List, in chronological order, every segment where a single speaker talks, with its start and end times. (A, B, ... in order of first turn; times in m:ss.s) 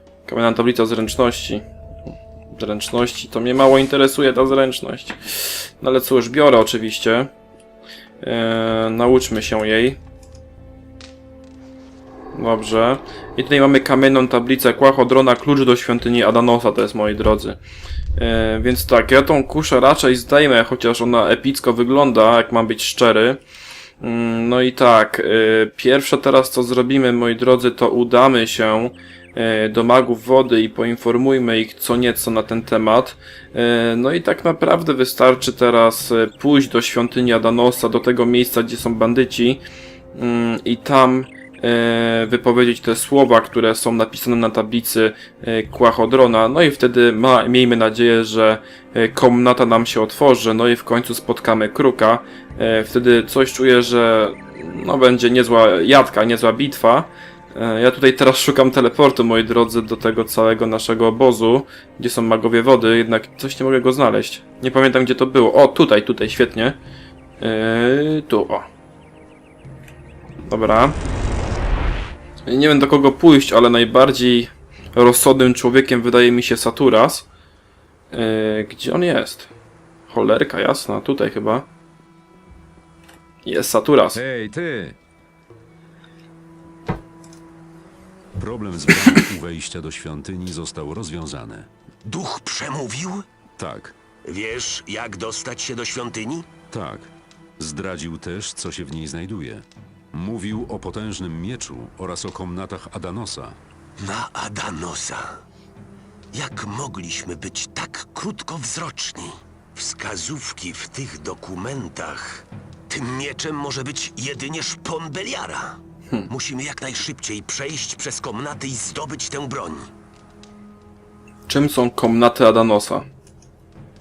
0:00.2-0:01.6 A
0:02.5-0:07.3 A
0:08.2-0:10.0 A
0:12.3-0:17.6 A
0:18.2-0:23.4 A
0:24.0-0:39.6 A
0:40.1-1:06.8 A
1:07.4-1:08.7 A
1:10.4-1:11.0 A
1:12.4-1:17.3 A
1:18.1-1:19.5 A
1:20.1-1:21.7 A
1:23.4-1:24.2 A
1:24.1-1:25.0 B
1:28.4-1:31.7 B
1:32.0-1:33.2 C
1:33.6-1:34.0 B
1:34.2-1:36.5 C
1:36.7-1:43.6 B
1:44.0-1:45.4 C
1:46.3-1:55.8 C
1:56.3-1:59.8 C
2:01.5-2:03.1 A